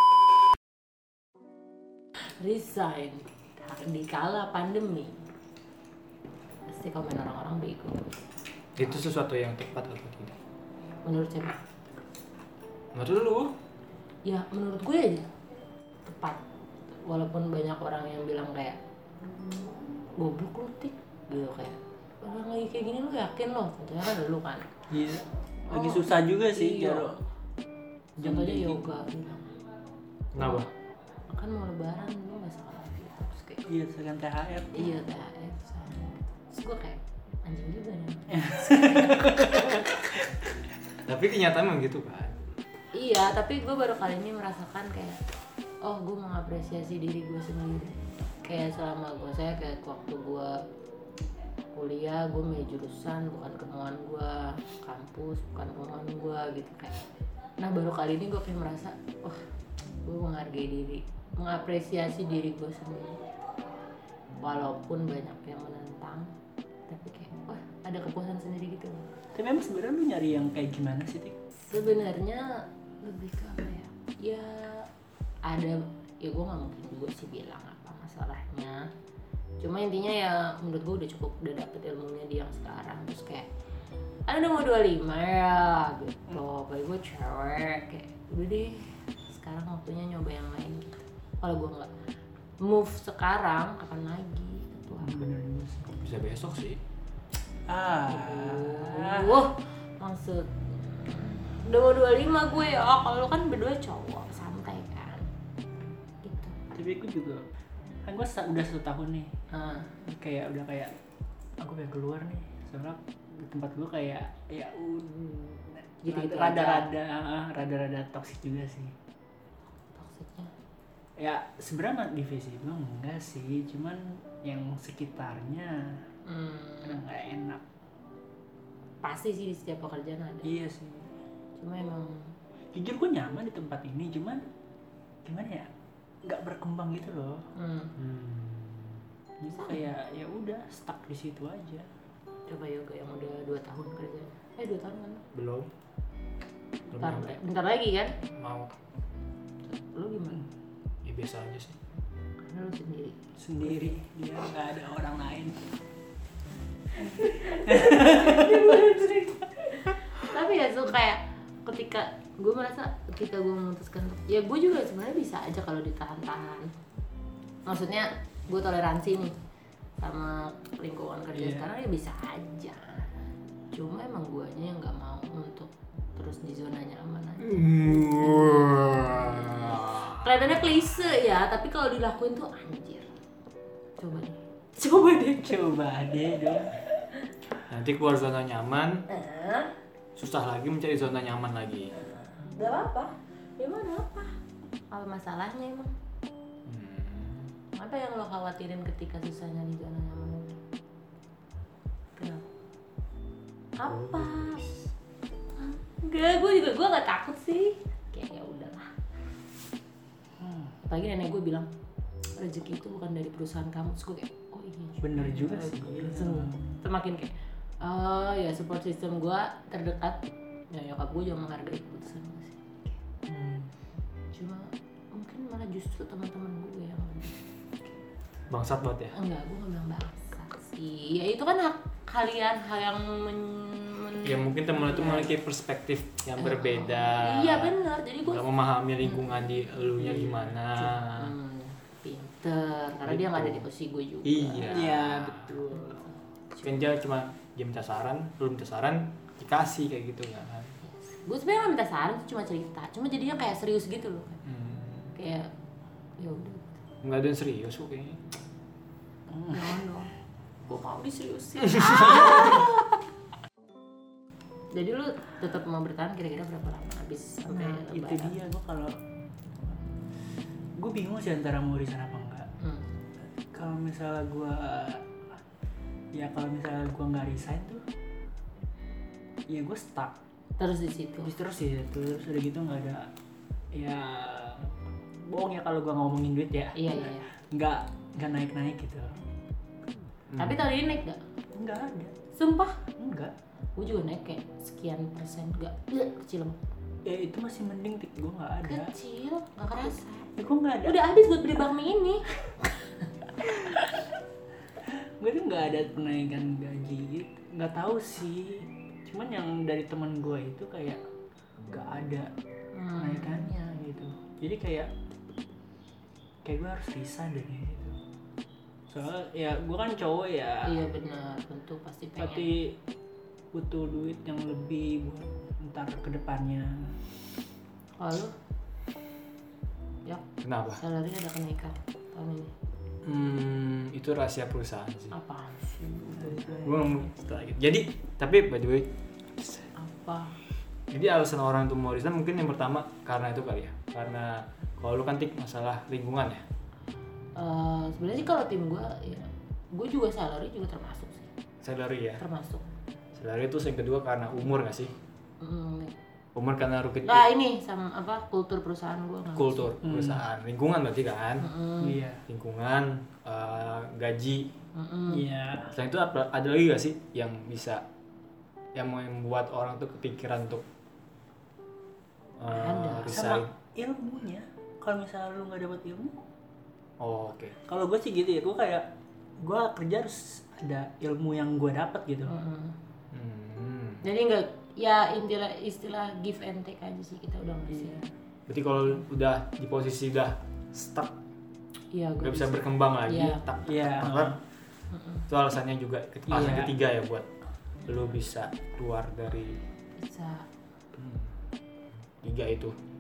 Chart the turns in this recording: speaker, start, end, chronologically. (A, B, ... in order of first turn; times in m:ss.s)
0:02.2-0:05.2 A
0:06.7-0:08.3 A
0:08.8-0:10.4 B
0:11.0-0:11.6 A
0:12.9-0:13.5 B
0:14.2-0:15.3 A
0:16.0-0:18.8 A
0:19.3-0:24.7 A
0:24.9-0:27.2 C
0:25.7-0:27.2 A
0:28.2-0:28.8 C
0:28.2-0:29.6 A
0:30.3-0:30.7 B
0:30.4-0:30.7 A
0:31.3-0:33.6 A
0:33.7-0:35.0 C
0:34.7-0:39.4 A
0:38.3-0:40.3 C
0:41.0-0:42.4 B
0:42.9-0:45.2 A
0:45.8-0:50.6 A
0:51.7-0:57.0 A
0:57.6-0:59.5 A
1:00.0-1:03.2 A
1:04.4-1:06.3 A
1:06.9-1:09.1 A
1:09.4-1:11.4 C
1:11.6-1:14.9 A
1:15.4-1:18.9 A
1:19.6-1:23.5 A
1:24.3-1:35.3 A
1:35.0-1:36.0 C
1:35.9-1:36.8 B
1:37.7-1:39.5 C
1:38.1-1:45.3 A
1:46.2-1:46.6 A
1:46.7-1:47.4 C
1:48.1-1:49.3 C
1:49.5-1:50.0 A
1:50.0-1:50.9 C
1:51.6-1:58.9 C
1:56.0-1:56.9 A
1:59.9-2:00.5 A
2:01.2-2:06.0 C
2:06.2-2:07.0 A
2:06.8-2:07.6 C
2:09.0-2:10.5 A
2:10.4-2:11.1 C
2:11.6-2:12.4 A
2:12.7-2:14.5 C
2:15.2-2:15.7 C
2:16.2-2:17.5 C
2:17.6-2:18.0 A
2:18.0-2:19.0 B
2:19.4-2:21.9 C
2:19.5-2:19.9 A
2:22.5-2:25.3 A
2:25.3-2:25.7 B
2:26.9-2:28.2 A
2:26.9-2:27.3 B
2:28.3-2:28.8 B
2:29.6-2:30.4 A
2:31.0-2:31.8 B
2:32.4-2:33.2 A
2:33.4-2:35.7 C
2:37.0-2:46.7 A
2:37.2-2:38.9 C
2:47.6-2:49.4 A
2:50.0-2:53.1 A
2:51.4-2:51.7 C
2:53.7-3:03.2 A
2:57.4-3:00.2 B
3:04.0-3:05.6 A
3:05.4-3:06.7 C
3:07.7-3:09.1 B
3:09.1-3:09.7 A
3:10.2-3:11.9 B
3:12.2-3:14.4 A
3:14.9-3:15.9 A
3:16.7-3:17.5 B
3:17.7-3:20.6 A
3:22.2-3:22.5 A
3:23.8-3:24.6 A
3:23.8-3:24.7 B
3:25.5-3:28.9 A
3:30.8-3:31.7 A
3:32.3-3:42.6 A
3:35.0-3:36.7 C
3:43.3-3:43.7 C
3:44.3-3:47.9 A
3:48.5-3:49.2 B
3:49.1-3:55.4 A
3:54.2-4:01.3 B
3:56.4-3:58.5 A
3:59.0-4:04.9 A
4:00.0-4:00.5 C
4:03.0-4:03.7 B
4:04.2-4:05.4 B
4:04.7-4:06.0 C
4:05.7-4:06.7 A
4:06.6-4:10.7 B
4:10.8-4:14.4 A
4:14.4-4:15.1 B
4:15.1-4:15.5 A
4:16.2-4:16.8 A
4:17.0-4:18.2 B
4:19.4-4:20.1 A
4:20.6-4:23.0 A
4:24.7-4:28.4 A
4:27.5-4:29.0 C
4:30.8-4:32.5 C
4:32.6-4:32.9 A
4:33.4-4:35.1 C
4:36.1-4:37.8 C
4:39.5-4:40.2 C
4:40.6-4:41.3 A
4:41.2-4:43.1 C
4:43.7-4:49.2 C
4:46.7-4:47.3 A
4:50.4-4:51.2 A
4:51.5-4:52.2 C
4:52.3-4:52.8 A
4:53.0-4:53.3 C
4:53.8-4:56.6 A
4:57.0-4:58.9 C
4:58.6-5:02.8 A
5:00.4-5:01.1 C
5:04.8-5:11.0 C
5:11.7-5:12.3 C
5:12.7-5:13.6 A
5:13.0-5:14.9 C
5:16.4-5:18.0 C
5:18.9-5:20.8 C
5:20.6-5:22.5 A
5:22.2-5:22.8 C
5:23.5-5:27.0 C
5:28.0-5:28.4 A
5:30.4-5:30.8 B
5:30.8-5:32.5 A
5:33.0-5:35.2 B
5:35.1-5:36.6 A
5:36.2-5:37.0 C
5:36.6-5:39.7 B
5:39.8-5:40.4 A
5:40.9-5:46.4 B
5:47.4-5:51.3 A
5:51.6-5:52.2 B
5:52.2-5:52.6 A
5:53.1-5:54.9 B
5:55.4-5:56.0 A
5:56.4-5:57.3 B
5:57.0-5:59.7 A
5:59.4-6:01.5 B
5:59.8-6:00.2 C
6:01.4-6:02.0 A
6:01.8-6:02.2 C
6:02.3-6:04.5 B
6:04.7-6:05.2 A
6:05.1-6:05.8 C
6:05.7-6:07.8 B
6:08.7-6:10.6 B
6:12.4-6:13.5 B
6:12.5-6:13.2 A
6:13.1-6:16.2 C
6:17.0-6:17.6 B
6:17.7-6:18.9 C
6:19.4-6:22.3 C
6:22.3-6:22.8 A
6:23.1-6:24.0 B
6:24.0-6:28.0 A
6:27.7-6:28.1 C
6:28.5-6:31.2 B
6:31.9-6:33.4 A
6:32.2-6:34.4 B
6:33.6-6:34.4 C
6:34.9-6:35.3 A
6:35.3-6:37.3 B
6:36.3-6:36.8 C
6:37.9-6:39.6 B
6:40.0-6:40.5 A
6:41.0-6:41.3 B
6:42.2-6:42.8 B